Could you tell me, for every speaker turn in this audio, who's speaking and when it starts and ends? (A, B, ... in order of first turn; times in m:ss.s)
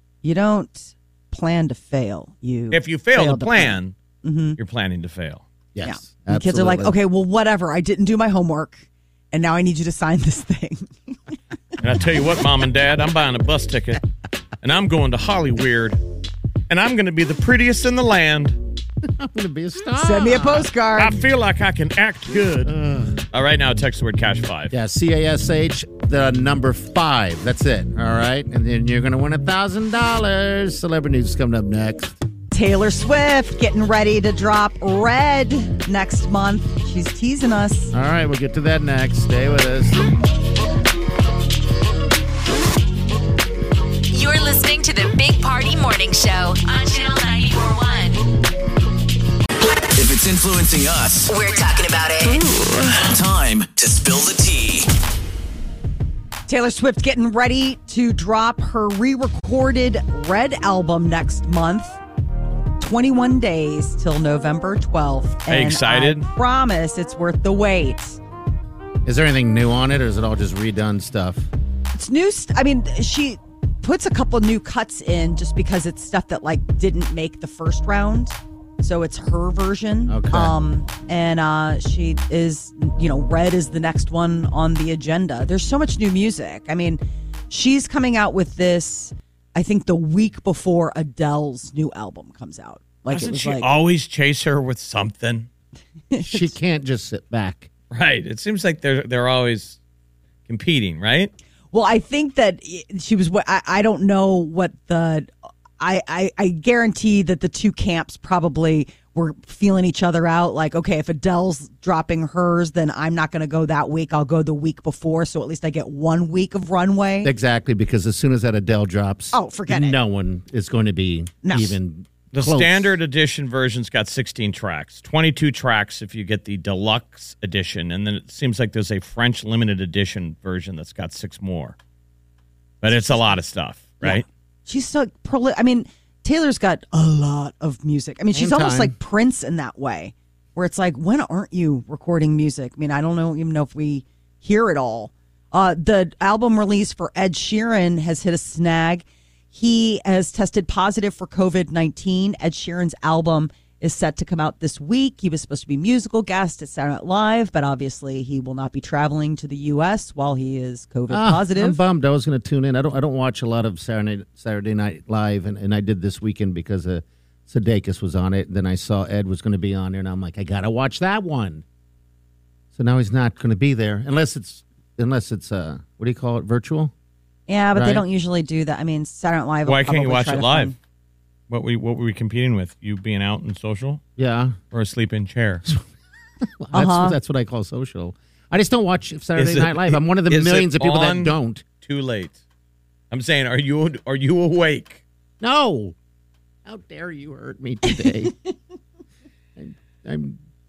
0:00.2-0:04.6 A
0:02.7-0:04.0 B
0:04.6-0:05.5 B
0:05.8-0:07.0 C
0:05.8-0:10.9 A
0:11.8-0:14.0 B
0:14.6-0:16.0 B
0:16.7-0:18.6 B
0:19.0-0:20.7 C
0:20.0-0:21.2 A
0:21.0-0:22.7 B
0:22.6-0:23.2 C
0:23.3-0:24.7 B
0:24.7-0:32.2 C
0:32.5-0:37.9 A
0:37.9-0:40.0 C
0:44.1-0:48.2 D
0:50.0-0:51.4 E
0:51.3-0:52.4 D
0:52.9-0:54.9 E
0:56.5-1:02.0 A
1:02.8-1:08.2 A
1:05.5-1:06.3 B
1:09.0-1:11.5 C
1:11.9-1:33.7 A
1:20.1-1:20.6 C
1:33.1-1:35.5 B
1:36.1-1:36.5 A
1:36.2-1:37.7 C
1:37.9-1:39.8 B
1:40.5-1:41.3 B
1:41.7-1:57.3 A
1:57.2-2:03.0 C
1:59.3-2:00.0 A
2:01.4-2:01.8 A
2:02.3-2:11.8 B
2:12.8-2:14.2 B
2:14.0-2:41.8 A
2:18.3-2:19.0 C
2:41.1-2:51.6 C
2:52.7-2:56.9 C
2:57.5-3:00.8 A
2:57.8-2:58.0 C
2:59.7-3:00.7 B
3:01.5-3:04.0 B
3:04.2-3:04.6 C
3:04.7-3:05.6 B
3:06.4-3:11.6 C
3:06.7-3:07.2 A
3:09.4-3:12.4 B
3:13.1-3:15.0 B
3:15.4-3:16.0 C
3:16.7-3:18.3 C
3:19.6-3:20.4 C